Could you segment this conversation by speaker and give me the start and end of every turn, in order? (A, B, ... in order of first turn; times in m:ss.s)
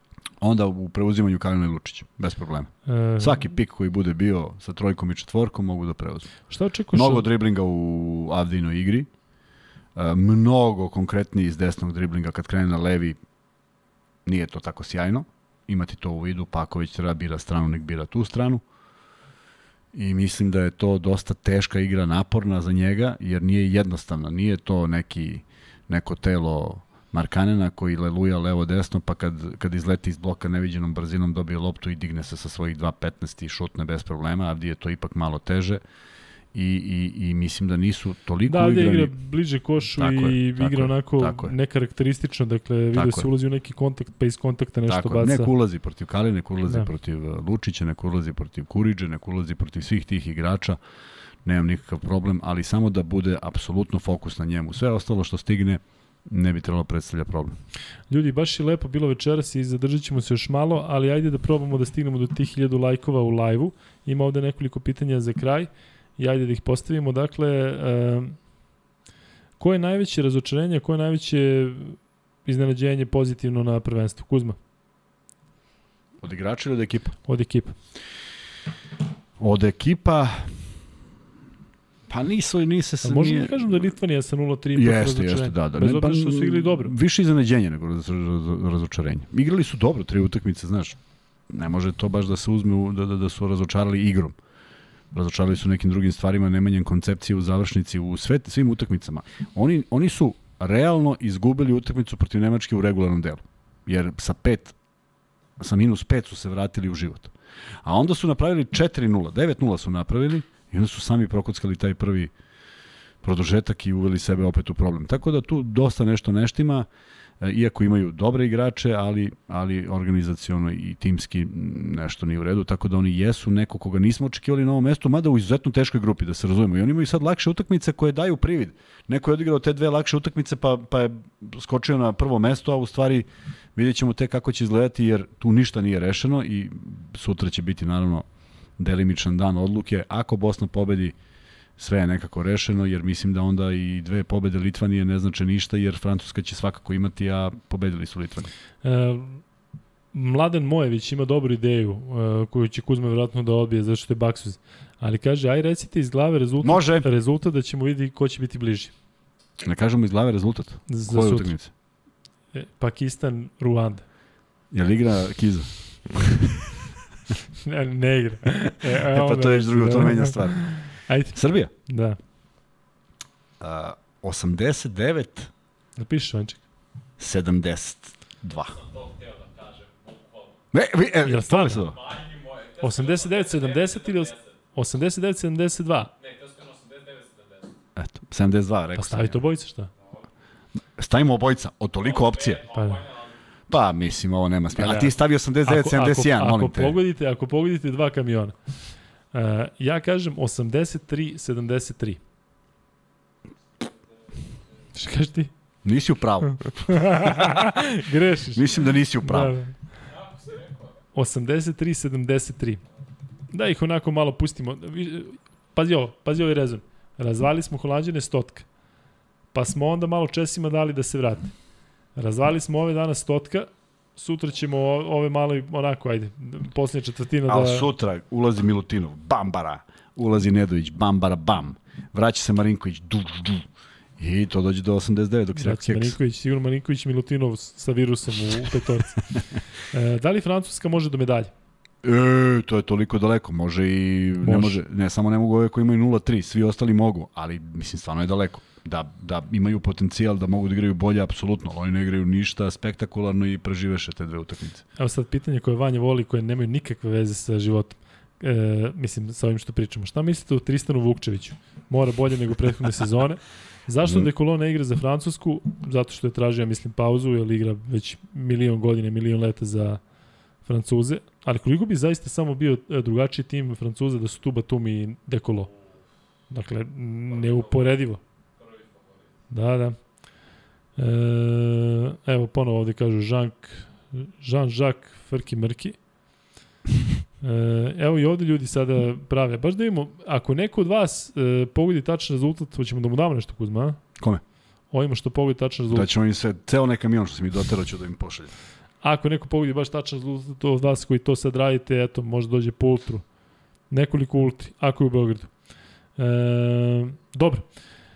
0:00.4-0:06.4 A
0:02.8-0:03.4 B
0:06.5-0:07.2 B
0:06.9-0:09.1 A
0:09.9-0:13.2 A
0:14.2-0:18.6 A
0:19.9-0:35.8 A
0:36.5-0:39.1 A
0:38.4-0:45.5 B
0:40.0-0:41.5 A
0:42.9-0:43.3 A
0:44.9-0:50.8 A
0:51.4-0:57.5 A
0:58.1-1:08.4 B
1:09.6-1:14.6 B
1:16.2-1:17.2 A
1:17.2-1:17.8 B
1:19.4-1:20.7 A
1:22.1-1:23.7 A
1:23.0-1:26.9 B
1:24.7-1:31.0 A
1:31.5-1:34.4 A
1:35.1-1:44.7 A
1:45.6-1:47.3 A
1:47.8-1:52.3 A
1:53.2-1:56.9 A
1:57.4-2:18.2 A
2:18.8-2:21.1 A
2:21.8-2:28.5 A
2:28.8-2:29.4 B
2:30.1-2:38.9 B
2:36.6-2:37.1 A
2:39.6-2:41.7 A
2:40.9-2:41.6 B
2:42.5-2:44.0 B
2:44.7-2:46.6 A
2:47.6-2:52.2 B
2:48.9-2:51.7 A
2:53.6-2:55.5 A
2:56.0-2:56.6 B
2:57.2-2:58.8 A
2:58.5-3:00.6 C
3:00.7-3:02.0 A
3:01.2-3:01.9 B
3:01.7-3:04.6 C
3:02.8-3:06.1 B
3:06.2-3:07.7 C
3:08.0-3:09.4 A
3:09.0-3:09.9 B
3:11.0-3:12.6 A
3:12.0-3:13.4 C
3:12.7-3:13.0 B
3:13.7-3:17.0 A
3:14.7-3:15.1 B
3:15.6-3:18.8 B
3:19.3-3:22.2 B
3:24.9-3:25.5 B
3:25.8-3:27.0 A
3:26.4-3:29.8 B
3:28.5-3:29.5 A
3:30.0-3:31.0 C
3:31.1-3:32.8 B
3:33.5-3:38.7 B
3:39.5-3:41.5 B
3:42.1-3:47.9 B
3:47.5-3:53.7 A
3:54.2-3:56.2 A
3:55.5-4:01.5 B
4:02.0-4:14.8 A
4:04.4-4:04.8 B
4:15.0-4:30.0 B
4:24.0-4:24.3 A
4:30.6-4:35.7 B
4:36.5-4:38.2 B
4:37.3-4:39.4 C
4:39.5-4:40.2 B
4:41.0-4:46.0 B
4:47.4-4:54.0 B
4:54.9-4:56.1 B
4:55.9-4:58.5 A
4:59.0-5:03.2 B
5:03.9-5:05.6 B
5:06.2-5:07.7 B